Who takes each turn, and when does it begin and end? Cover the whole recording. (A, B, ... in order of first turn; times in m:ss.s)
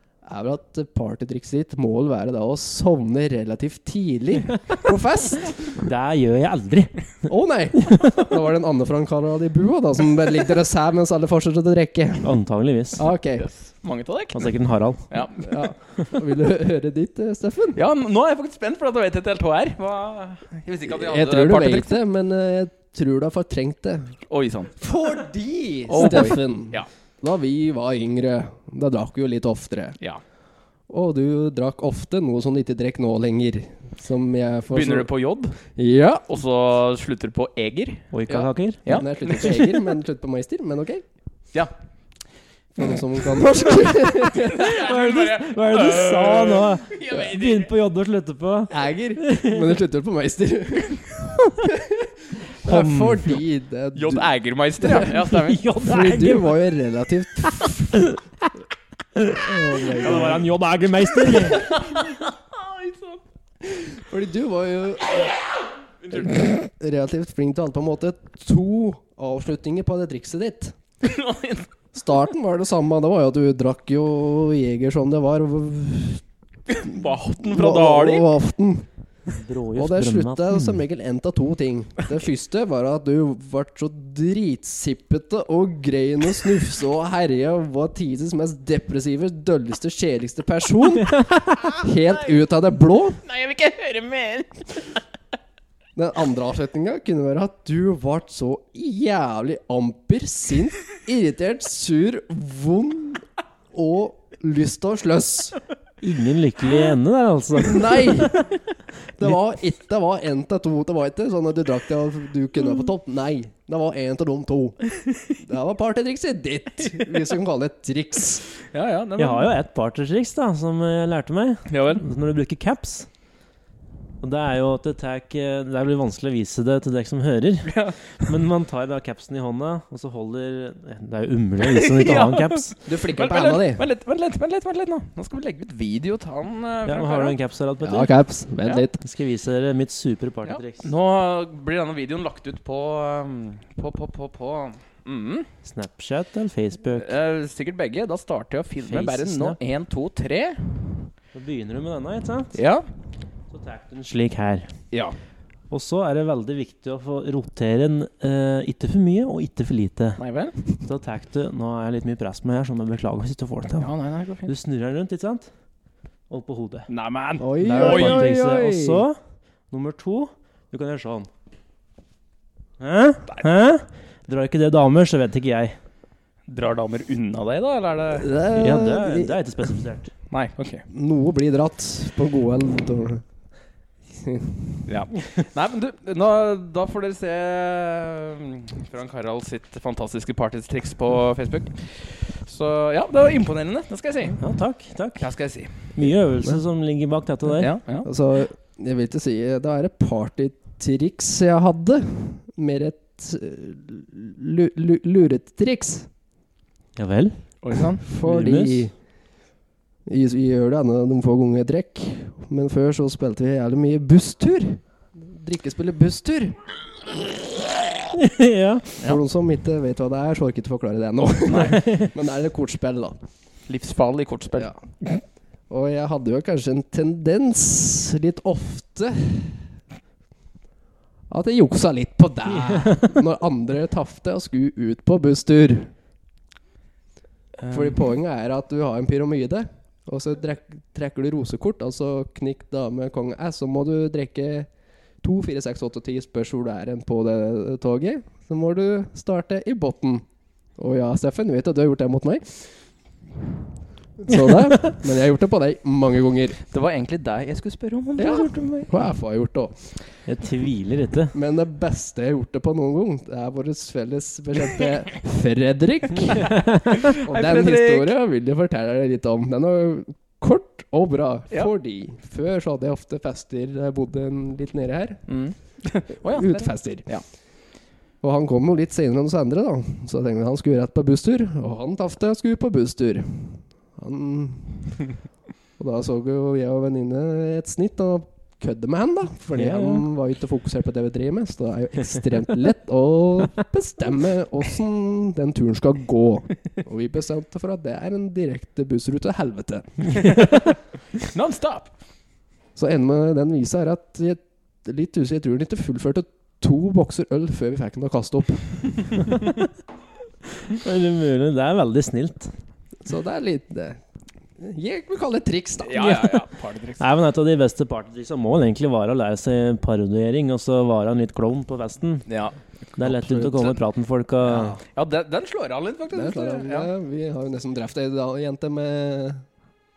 0:00.2-0:05.8 A
0:05.8-0:07.0 B
0:07.3-0:12.3 A
0:07.9-0:08.2 B
0:12.2-0:13.0 B
0:13.0-0:13.5 A
0:13.4-0:14.5 C
0:14.3-0:15.1 B
0:15.1-0:15.6 C
0:15.4-0:17.8 A
0:17.8-0:22.0 C
0:20.9-0:24.2 A
0:24.3-0:24.8 C
0:24.8-0:30.0 A
0:25.9-0:26.9 C
0:30.9-0:35.1 A
0:34.7-0:35.6 C
0:35.8-0:36.3 A
0:36.3-0:39.8 C
0:38.1-0:39.0 B
0:38.9-0:41.0 A
0:42.8-0:44.8 A
0:44.2-0:47.7 C
0:44.6-0:49.7 B
0:48.7-0:55.2 A
0:52.6-0:53.4 B
0:54.0-0:55.6 C
0:55.2-0:56.6 B
0:55.8-0:58.0 A
0:57.6-0:58.2 B
0:59.2-1:01.8 B
0:59.4-1:00.5 A
1:00.1-1:00.4 C
1:01.2-1:03.2 C
1:03.7-1:05.3 A
1:06.0-1:06.4 C
1:06.1-1:10.8 A
1:11.0-1:11.7 C
1:11.9-1:16.2 A
1:16.7-1:18.3 C
1:17.4-1:18.9 A
1:19.3-1:20.8 B
1:19.8-1:33.2 A
1:31.2-1:31.6 B
1:32.1-1:32.4 C
1:33.2-1:35.0 C
1:36.0-1:45.6 A
1:46.0-1:48.5 B
1:47.6-1:48.5 A
1:49.2-1:54.8 A
1:55.1-1:55.3 C
1:55.4-1:58.4 A
1:56.8-1:57.2 C
1:58.7-1:59.5 C
1:59.2-2:03.1 B
2:01.7-2:02.0 C
2:04.2-2:12.7 B
2:07.7-2:08.3 C
2:11.6-2:17.4 C
2:12.9-2:13.8 A
2:16.9-2:18.1 B
2:17.8-2:19.0 A
2:19.0-2:20.9 B
2:20.5-2:25.5 C
2:25.6-2:27.1 B
2:27.0-2:30.8 C
2:28.8-2:29.6 B
2:31.3-2:32.6 B
2:32.6-2:32.8 C
2:33.5-2:34.7 B
2:34.9-2:35.2 C
2:35.7-2:40.2 B
2:40.2-2:40.6 C
2:40.8-2:43.9 B
2:43.8-2:44.5 C
2:44.4-2:45.5 B
2:46.3-2:46.9 B
2:46.9-2:48.3 C
2:47.4-2:49.0 A
2:47.6-2:49.2 B
2:49.7-2:51.3 B
2:52.8-2:55.8 B
2:56.5-2:58.3 C
2:58.2-2:59.4 A
2:58.6-3:00.1 B
3:00.3-3:00.8 C
3:00.9-3:03.2 A
3:04.1-3:04.8 A
3:04.9-3:14.4 C
3:14.4-3:15.3 B
3:15.2-3:16.1 C
3:16.0-3:17.7 B
3:17.6-3:18.1 C
3:18.0-3:26.1 A
3:27.0-3:27.4 B
3:27.6-3:28.0 C
3:28.0-3:28.9 A
3:28.2-3:28.9 B
3:30.1-3:36.6 A
3:38.1-3:38.9 B
3:39.0-3:43.2 A
3:41.5-3:41.8 C
3:41.7-3:42.1 B
3:43.7-3:44.7 C
3:45.7-3:49.7 A
3:51.3-3:55.9 A
3:57.6-3:58.0 C
3:57.7-4:04.7 A
4:05.2-4:10.2 A
4:10.8-4:12.8 A
4:14.2-4:16.6 A
4:16.7-4:19.0 C
4:18.2-4:19.8 A
4:20.3-4:21.4 B
4:21.3-4:26.5 A
4:26.5-4:26.8 B
4:26.9-4:28.1 C
4:27.1-4:35.2 A
4:35.3-4:37.2 C
4:36.2-4:37.1 A
4:38.2-4:44.9 A
4:45.8-5:00.2 A
4:49.6-4:50.0 B
5:00.2-5:01.9 C
5:02.8-5:09.1 A
5:09.3-5:09.6 B
5:10.6-5:12.5 B
5:13.0-5:14.0 A
5:14.6-5:16.4 A
5:15.8-5:17.0 C
5:17.0-5:22.3 B
5:22.3-5:23.8 C
5:23.0-5:24.8 B
5:24.5-5:24.8 A
5:24.9-5:26.9 C
5:26.1-5:29.4 A